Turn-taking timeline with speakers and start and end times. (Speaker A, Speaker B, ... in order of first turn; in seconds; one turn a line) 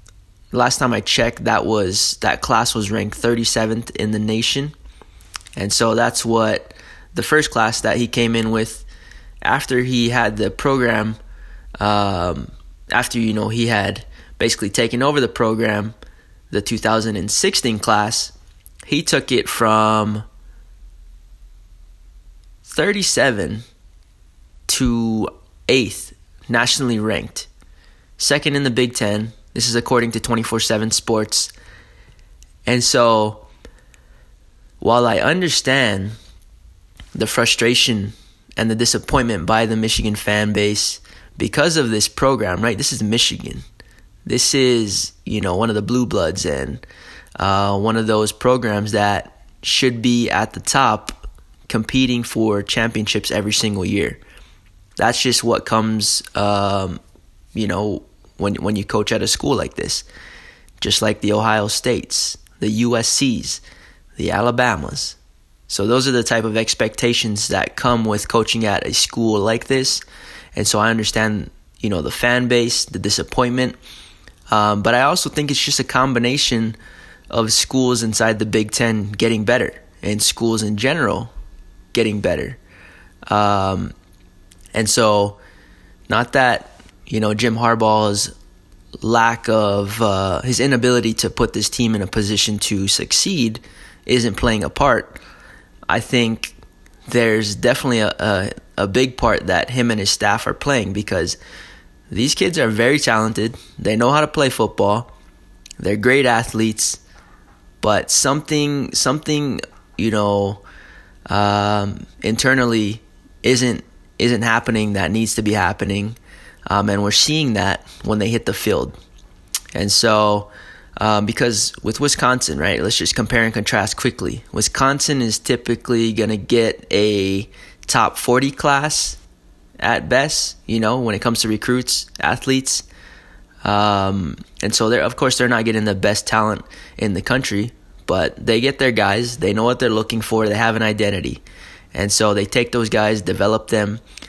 Speaker A: 0.5-4.8
Speaker A: 5.5-8.9
Speaker A: 9.4-11.2
Speaker A: 11.8-15.9
Speaker A: 16.5-18.3
Speaker A: 18.9-20.2
Speaker A: 22.7-23.6
Speaker A: 24.7-27.5
Speaker A: 28.2-31.5
Speaker A: 32.7-33.5
Speaker A: 34.8-36.1
Speaker A: 37.1-43.6
Speaker A: 44.3-46.8
Speaker A: 47.4-54.2
Speaker A: 55.0-57.0
Speaker A: 57.5-60.1
Speaker A: 60.8-63.6
Speaker A: 64.2-65.2
Speaker A: 65.7-70.0
Speaker A: 70.6-73.8
Speaker A: 74.5-76.8
Speaker A: 77.3-81.3
Speaker A: 81.9-82.6
Speaker A: 83.3-83.9
Speaker A: 84.8-85.4
Speaker A: 86.1-88.3
Speaker A: 89.0-95.2
Speaker A: 95.9-96.5
Speaker A: 97.1-101.4
Speaker A: 102.1-105.1
Speaker A: 105.8-107.0
Speaker A: 107.8-110.6
Speaker A: 111.3-119.0
Speaker A: 119.8-129.2
Speaker A: 129.8-132.8
Speaker A: 133.6-141.4
Speaker A: 141.9-144.0